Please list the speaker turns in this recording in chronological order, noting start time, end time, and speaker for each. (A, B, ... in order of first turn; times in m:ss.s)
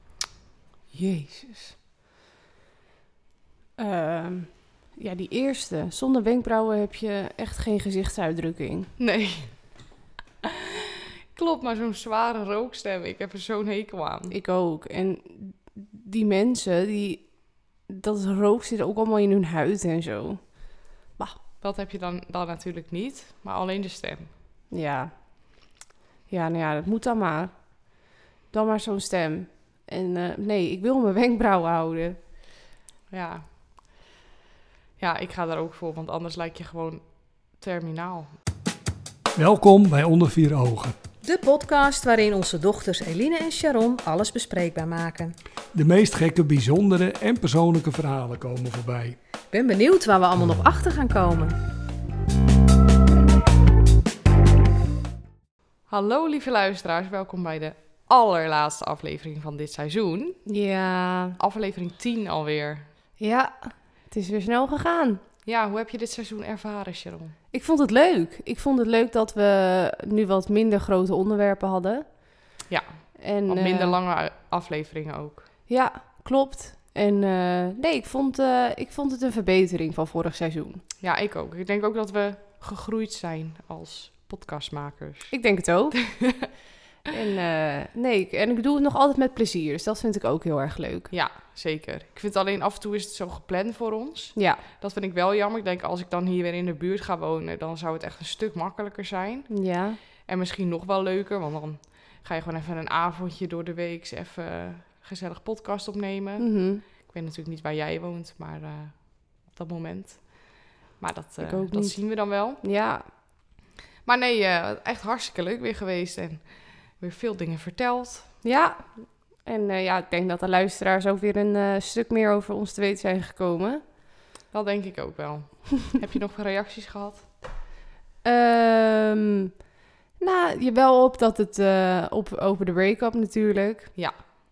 0:00.9-0:01.8 A
0:03.8-0:08.9 A
0:09.0-0:09.5 B
0:10.4-0:14.3 B
0:14.3-0:17.3 A
0:17.9-0:20.4 A
0:21.6-0:24.3 B
0:24.7-0:25.1 A
0:26.3-0:27.5 A
0:28.5-0:32.2 A
0:33.1-0:33.4 B
0:35.0-0:37.0 B
0:37.6-0:38.3 B
0:39.4-0:41.0 C
0:41.2-0:45.4 D
0:45.7-0:49.2 C
0:49.5-0:51.6 D
0:55.9-1:00.4 B
1:00.5-1:01.4 A
1:01.4-1:02.9 B
1:03.2-1:05.2 A
1:05.4-1:07.4 B
1:07.5-1:12.1 A
1:12.7-1:15.5 B
1:13.2-1:14.0 A
1:15.7-1:20.8 A
1:21.0-1:25.3 B
1:25.3-1:26.1 A
1:26.0-1:26.5 B
1:27.1-1:31.1 A
1:31.1-1:39.5 B
1:34.4-1:34.6 A
1:39.5-1:40.0 A
1:40.3-1:52.6 B
1:46.4-1:46.8 A
1:51.4-1:53.1 A
1:54.0-1:58.3 B
1:58.4-2:03.8 A
2:04.5-2:07.3 B
2:08.2-2:09.5 A
2:10.2-2:13.9 A